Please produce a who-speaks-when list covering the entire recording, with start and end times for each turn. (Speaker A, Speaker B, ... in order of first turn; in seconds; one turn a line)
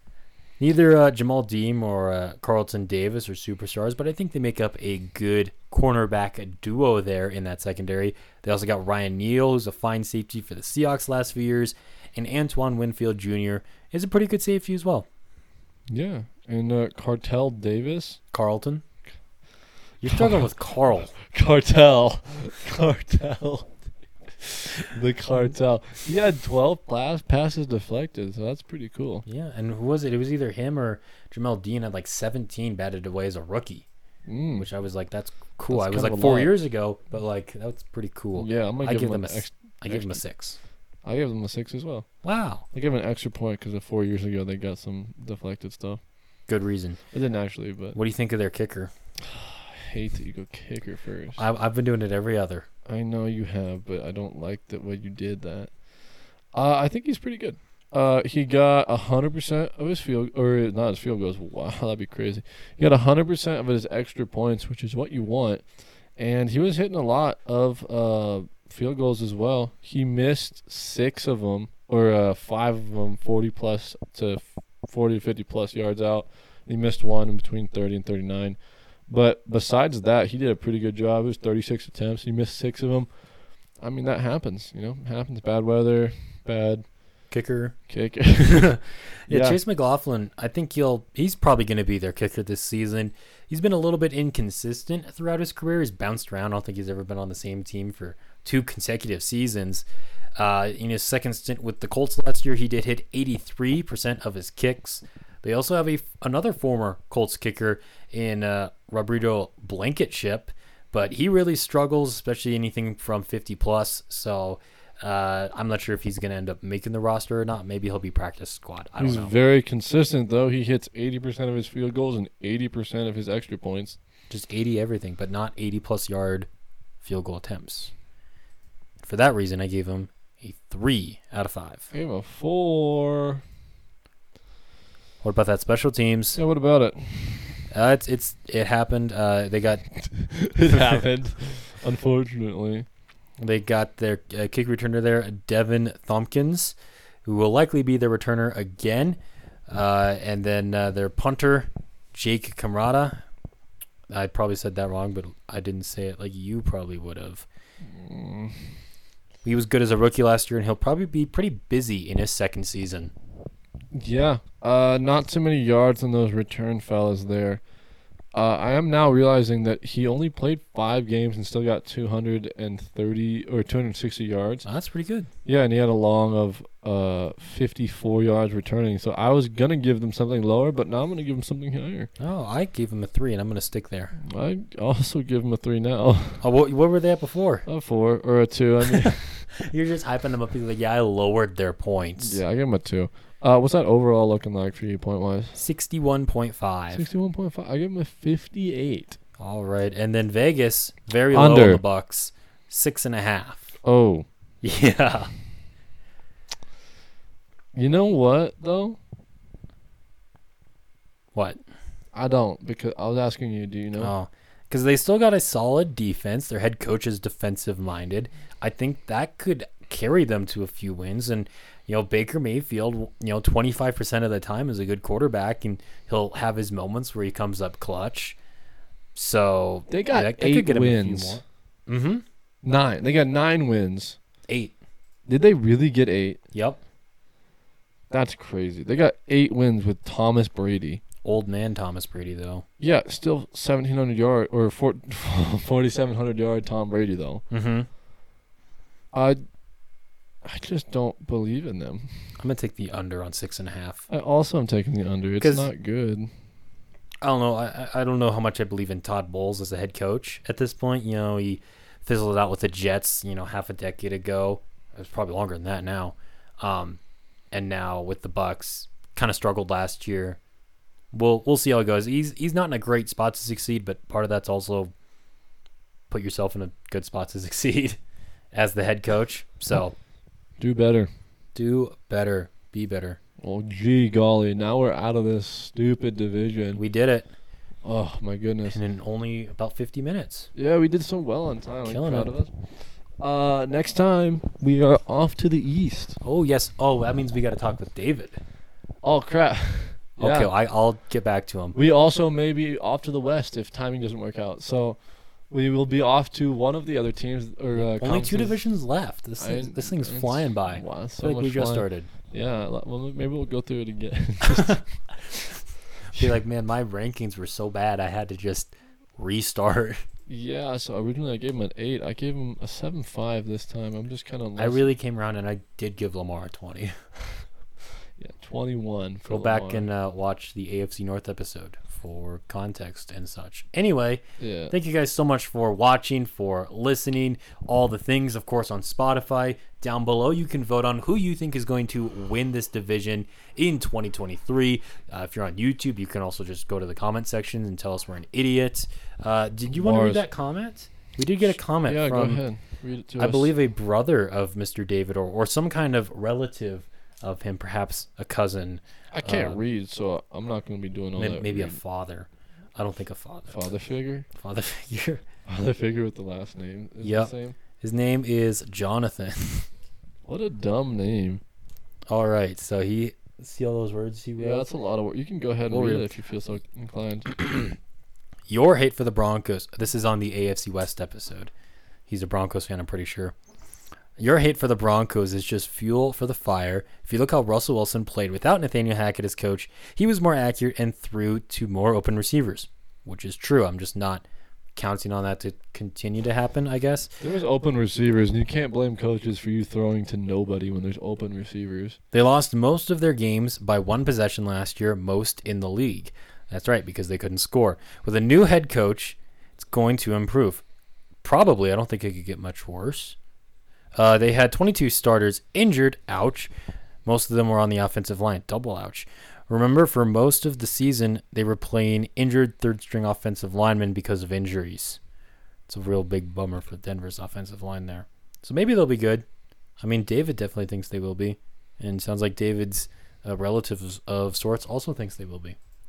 Speaker A: 0.6-15.1
Speaker B: 15.9-18.2
Speaker A: 18.3-18.8
Speaker A: 20.0-21.1
Speaker B: 20.1-20.5
Speaker B: 21.2-23.7
Speaker B: 24.4-29.2
Speaker A: 29.2-33.9
Speaker B: 34.2-34.7
Speaker A: 34.5-40.6
Speaker B: 35.7-36.5
Speaker B: 38.4-40.2
Speaker B: 41.0-42.1
Speaker A: 42.2-42.6
Speaker B: 42.7-46.0
Speaker A: 46.5-47.0
Speaker B: 47.1-48.0
Speaker A: 47.9-48.9
Speaker B: 49.2-51.4
Speaker A: 51.4-52.7
Speaker B: 52.9-55.7
Speaker B: 56.5-65.6
Speaker B: 66.2-78.5
Speaker B: 79.1-83.1
Speaker B: 83.8-86.9
Speaker A: 87.3-87.8
Speaker B: 87.9-89.6
Speaker A: 88.4-99.8
Speaker A: 100.4-119.3
Speaker B: 119.0-124.0
Speaker A: 124.3-126.5
Speaker A: 127.0-127.9
Speaker A: 129.0-131.9
Speaker B: 131.9-133.4
Speaker A: 135.2-136.4
Speaker B: 136.3-137.6
Speaker A: 137.7-139.9
Speaker B: 140.0-142.9
Speaker A: 140.7-141.0
Speaker A: 143.4-153.2
Speaker A: 154.1-157.4
Speaker B: 157.9-158.8
Speaker A: 159.4-163.1
Speaker B: 163.9-167.6
Speaker B: 168.3-174.7
Speaker A: 174.7-175.3
Speaker B: 175.4-182.1
Speaker A: 182.2-184.1
Speaker B: 184.2-186.4
Speaker A: 186.4-187.7
Speaker B: 187.7-189.5
Speaker A: 188.9-192.4
Speaker B: 192.2-195.6
Speaker A: 195.5-197.1
Speaker B: 196.9-199.2
Speaker A: 199.4-203.7
Speaker B: 201.3-201.8
Speaker B: 203.8-204.2
Speaker A: 204.6-205.3
Speaker B: 207.7-209.0
Speaker B: 212.1-214.1
Speaker A: 214.0-228.4
Speaker A: 229.1-232.2
Speaker B: 229.9-231.4
Speaker B: 232.6-234.2
Speaker A: 234.5-234.7
Speaker B: 235.3-236.4
Speaker A: 236.5-236.8
Speaker B: 238.1-241.0
Speaker A: 241.2-242.6
Speaker B: 242.8-247.4
Speaker A: 247.5-247.9
Speaker B: 249.1-249.4
Speaker B: 250.4-252.2
Speaker A: 252.4-254.0
Speaker B: 254.1-256.3
Speaker A: 255.4-255.7
Speaker A: 257.2-267.0
Speaker A: 267.5-270.4
Speaker A: 271.1-274.9
Speaker A: 276.1-278.0
Speaker A: 278.5-279.9
Speaker B: 280.6-281.1
Speaker A: 281.5-283.2
Speaker B: 283.4-286.8
Speaker A: 286.7-287.3
Speaker B: 287.8-288.8
Speaker A: 288.7-290.5
Speaker B: 290.5-292.5
Speaker A: 291.8-292.3
Speaker B: 293.1-296.2
Speaker A: 296.2-298.4
Speaker B: 299.0-300.5
Speaker A: 300.2-301.8
Speaker B: 301.7-305.0
Speaker B: 305.5-308.6
Speaker A: 307.8-312.1
Speaker B: 309.4-314.8
Speaker A: 314.5-314.8
Speaker A: 316.1-320.0
Speaker B: 320.3-324.8
Speaker A: 324.6-326.9
Speaker B: 328.2-329.9
Speaker A: 329.3-352.4
Speaker B: 334.4-334.7
Speaker B: 349.7-350.2
Speaker B: 351.8-353.5
Speaker A: 353.2-359.6
Speaker B: 359.1-361.8
Speaker A: 361.1-363.7
Speaker B: 363.5-364.3
Speaker A: 364.3-365.2
Speaker B: 365.4-367.6
Speaker A: 367.0-369.7
Speaker B: 370.2-371.4
Speaker A: 372.1-374.7
Speaker B: 374.4-377.7
Speaker A: 375.7-376.1
Speaker A: 378.5-381.5
Speaker A: 382.1-383.3
Speaker A: 384.2-394.2
Speaker A: 394.8-397.1
Speaker B: 397.2-402.0
Speaker A: 402.1-410.6
Speaker A: 411.2-413.1
Speaker A: 413.9-416.5
Speaker A: 417.1-425.0
Speaker A: 425.7-429.2
Speaker A: 429.8-435.6